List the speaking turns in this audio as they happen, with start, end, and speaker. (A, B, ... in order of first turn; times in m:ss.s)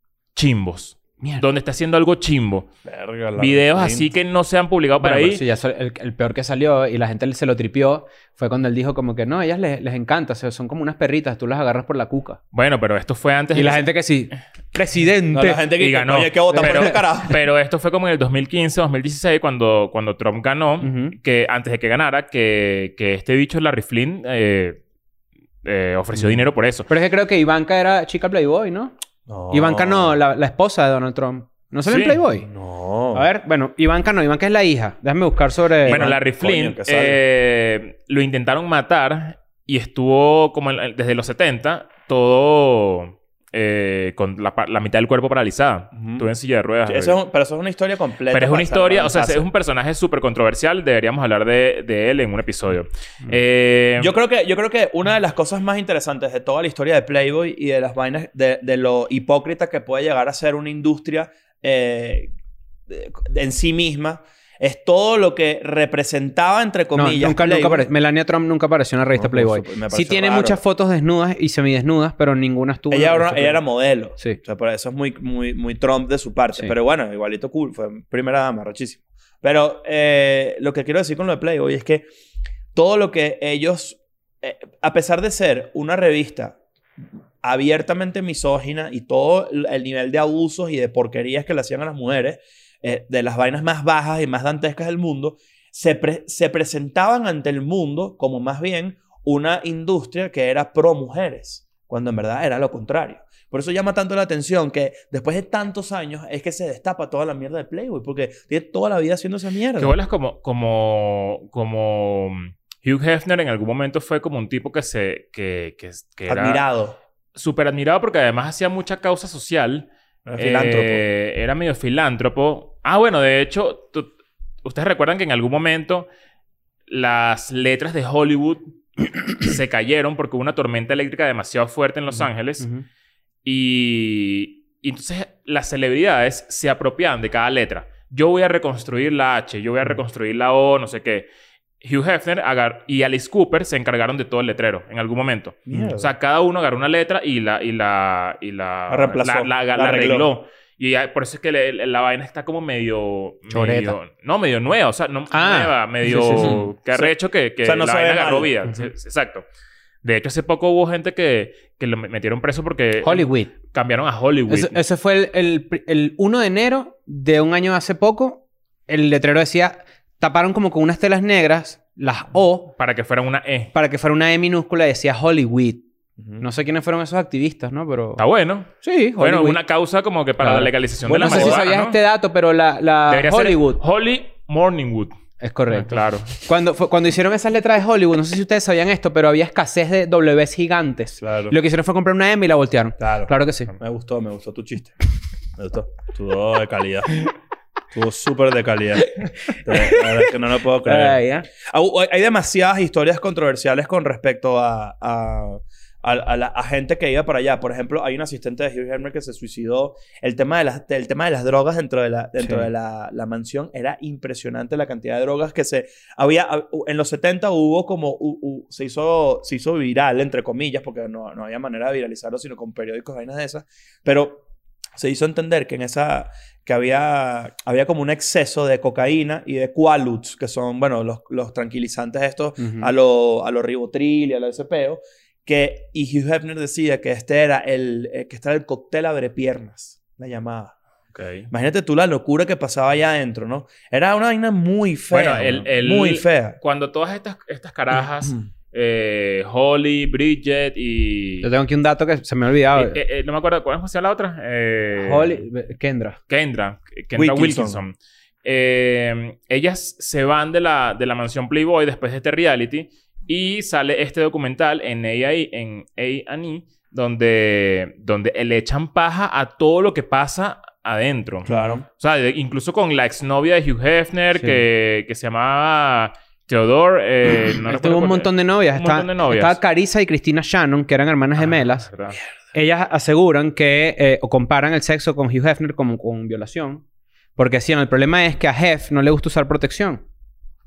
0:00.4-0:02.7 A
0:02.9-0:04.1 B
0:03.4-0:05.4 A
0:05.0-0:12.4 C
0:12.5-0:14.3 A
0:13.5-0:15.7 C
0:15.3-0:17.4 B
0:15.8-0:24.8 A
0:16.5-0:17.0 C
0:20.8-0:21.2 C
0:25.6-0:26.9 A
0:26.9-0:28.9 C
0:29.3-0:30.2 B
0:29.5-0:32.5 C
0:31.9-0:32.2 A
0:32.4-0:33.3 B
0:33.1-0:36.0 C
0:35.8-0:47.2 A
0:35.8-0:37.2 B
0:46.0-0:46.3 B
0:46.9-0:49.5 B
0:48.3-0:54.1 A
0:54.0-1:02.3 B
1:02.9-1:07.9 B
1:07.0-1:13.6 C
1:09.2-1:10.6 B
1:12.9-1:22.1 B
1:22.8-1:26.6 B
1:27.4-1:50.0 B
1:49.8-1:56.6 A
1:56.3-1:57.0 B
1:57.4-2:04.1 A
2:00.3-2:01.0 B
2:04.6-2:06.1 A
2:06.9-2:12.7 A
2:13.4-2:21.3 A
2:21.8-2:39.4 A
2:25.7-2:26.1 B
2:28.9-2:30.3 B
2:33.5-2:34.0 C
2:35.3-2:36.6 C
2:36.4-2:38.5 B
2:40.0-2:44.8 A
2:43.0-2:43.5 C
2:44.5-2:52.7 C
2:52.8-2:53.7 A
2:53.7-2:55.9 C
2:56.2-2:56.4 B
2:56.4-2:58.2 C
2:58.2-3:02.0 A
2:58.8-2:59.6 C
3:00.4-3:03.8 C
3:01.1-3:01.6 B
3:03.1-3:05.2 A
3:05.4-3:13.7 C
3:05.7-3:06.3 A
3:11.2-3:11.6 B
3:13.0-3:15.0 B
3:15.6-3:17.3 B
3:17.9-3:44.4 B
3:19.5-3:20.1 C
3:20.8-3:21.5 C
3:32.4-3:32.7 C
3:45.0-4:00.8 B
3:52.6-3:52.9 C
4:01.1-4:01.5 A
4:01.5-4:06.6 B
4:05.1-4:11.5 A
4:11.4-4:13.0 C
4:12.8-4:15.4 A
4:15.0-4:16.2 C
4:16.3-4:39.6 A
4:17.2-4:17.8 B
4:31.5-4:31.8 B
4:31.5-4:31.8 C
4:37.7-4:41.9 C
4:41.4-4:42.2 A
4:42.5-4:46.8 C
4:47.4-4:50.0 C